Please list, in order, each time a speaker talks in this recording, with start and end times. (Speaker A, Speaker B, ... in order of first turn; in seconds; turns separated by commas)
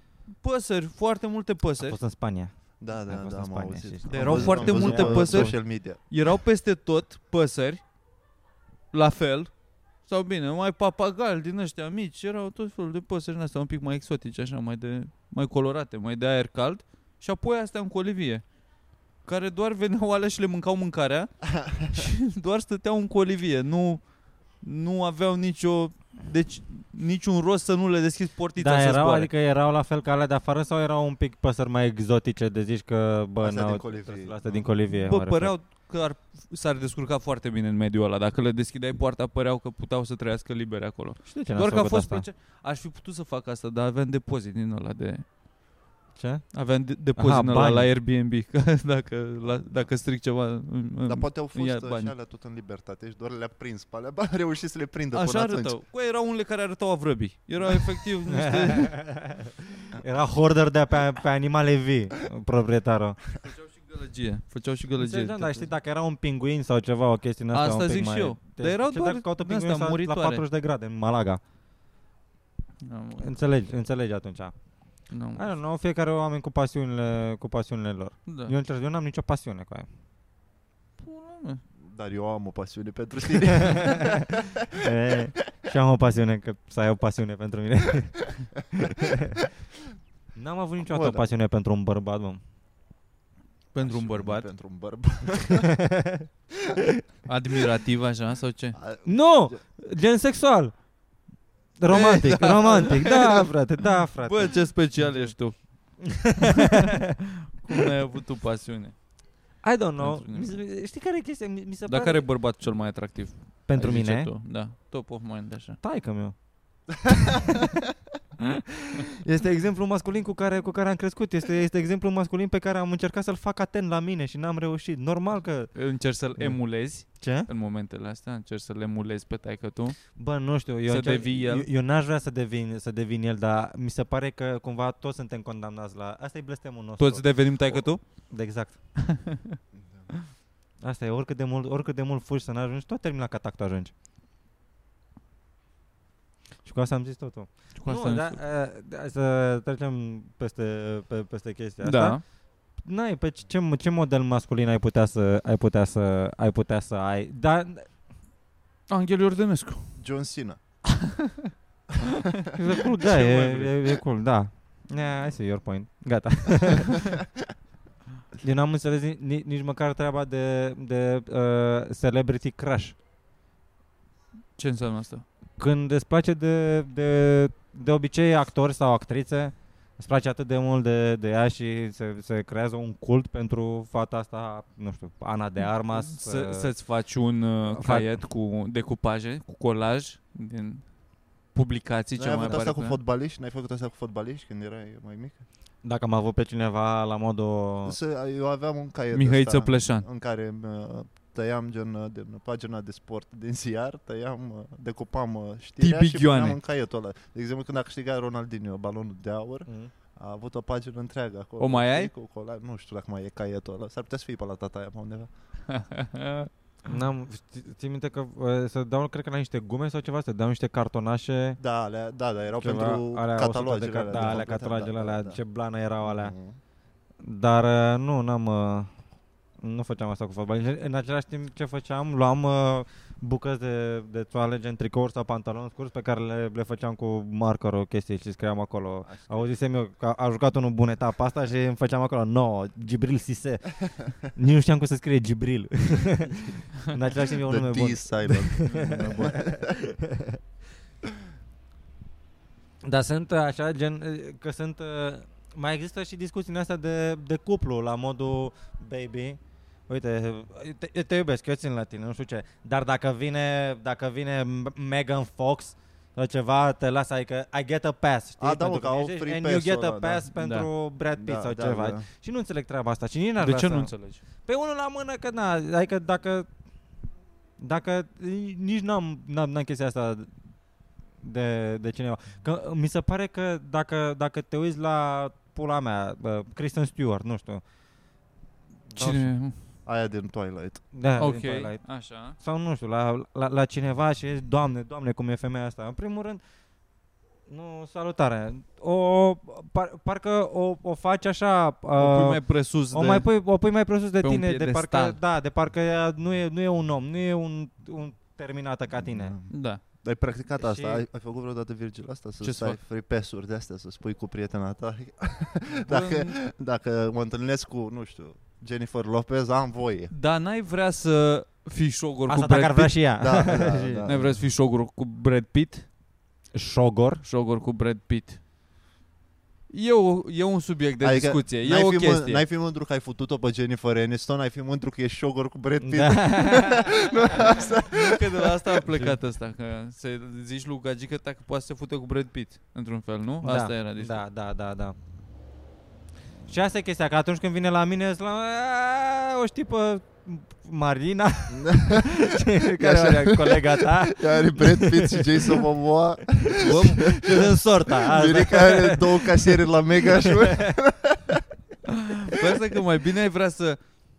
Speaker A: 0.4-2.0, Speaker B: 1.8-5.6, Speaker C: 2.8-6.0, Speaker A: 4.1-7.8, Speaker A: 8.9-18.4, Speaker A: 19.2-21.3, Speaker C: 21.6-21.8, Speaker A: 21.8-24.1, Speaker A: 24.6-29.3, Speaker B: 28.6-35.5, Speaker C: 33.4-34.7, Speaker A: 34.9-45.3, Speaker B: 41.2-42.2, Speaker B: 46.1-47.9, Speaker A: 46.5-52.1, Speaker C: 51.0-55.8, Speaker A: 55.1-59.3, Speaker B: 58.4-63.2, Speaker A: 63.4-65.7, Speaker B: 65.0-71.4, Speaker A: 67.5-70.4, Speaker A: 72.8-73.3, Speaker B: 73.2-74.5, Speaker A: 75.1-75.5, Speaker B: 75.1-79.9, Speaker A: 78.3-78.5, Speaker A: 81.0-81.6, Speaker C: 81.8-84.5, Speaker B: 84.8-89.4, Speaker B: 90.4-92.4, Speaker C: 90.9-91.2, Speaker A: 93.7-94.5, Speaker C: 93.8-95.7, Speaker B: 95.6-96.2, Speaker A: 97.3-98.8, Speaker C: 98.7-99.6, Speaker B: 99.0-100.7, Speaker B: 101.8-106.9, Speaker A: 101.9-103.4, Speaker A: 104.2-106.8, Speaker A: 107.6-109.0, Speaker B: 109.6-112.2, Speaker A: 110.0-110.5, Speaker A: 111.9-115.8, Speaker B: 113.7-114.3, Speaker B: 115.8-116.4, Speaker B: 117.1-117.7, Speaker B: 119.2-125.8, Speaker A: 125.7-130.2, Speaker B: 126.4-127.5, Speaker B: 130.1-138.8, Speaker A: 130.9-131.7, Speaker A: 137.0-138.3, Speaker A: 139.1-139.5, Speaker C: 139.7-140.1, Speaker B: 140.8-143.9, Speaker B: 146.6-152.2, Speaker A: 147.8-148.4, Speaker A: 151.8-152.2, Speaker B: 152.8-157.9, Speaker A: 158.9-159.9, Speaker C: 160.0-160.6, Speaker A: 160.9-161.3, Speaker B: 162.5-167.1, Speaker A: 163.0-163.8, Speaker B: 168.4-172.9, Speaker A: 174.6-175.2, Speaker B: 175.6-186.7, Speaker A: 185.8-191.0, Speaker B: 187.7-188.2, Speaker A: 191.5-193.0, Speaker C: 192.1-195.4, Speaker B: 195.8-198.0, Speaker C: 197.8-215.3, Speaker A: 199.1-200.1, Speaker A: 205.8-206.6, Speaker B: 209.7-209.9, Speaker A: 211.6-212.1, Speaker A: 215.7-216.5, Speaker B: 216.9-221.6, Speaker C: 221.6-225.4, Speaker B: 222.6-226.3, Speaker C: 226.0-226.6, Speaker B: 227.2-228.9, Speaker B: 229.6-250.4, Speaker C: 239.1-239.5, Speaker C: 247.4-249.7, Speaker A: 248.7-249.4, Speaker B: 252.8-273.9, Speaker C: 268.4-270.3, Speaker A: 270.3-270.7, Speaker C: 271.1-272.1, Speaker A: 273.4-274.2, Speaker B: 274.4-276.5, Speaker B: 277.6-280.3, Speaker B: 281.2-287.6, Speaker B: 288.9-289.3, Speaker A: 288.9-289.6, Speaker C: 289.8-290.9, Speaker B: 290.9-296.4, Speaker A: 291.2-292.4, Speaker B: 297.5-309.3, Speaker A: 301.9-303.5, Speaker A: 304.2-305.2, Speaker C: 308.9-320.1, Speaker A: 309.5-309.8, Speaker B: 310.6-311.0, Speaker A: 312.4-312.8, Speaker A: 315.8-316.3, Speaker A: 320.1-323.0, Speaker B: 322.3-324.1, Speaker C: 323.1-324.4, Speaker A: 324.1-325.9, Speaker B: 326.5-327.2, Speaker A: 327.2-328.4, Speaker A: 329.7-332.4, Speaker C: 331.0-339.1, Speaker B: 335.8-336.9, Speaker A: 337.9-344.2, Speaker B: 343.4-344.9, Speaker B: 346.5-355.6, Speaker C: 351.5-352.2, Speaker C: 352.8-361.4, Speaker B: 356.4-360.7, Speaker A: 362.0-363.8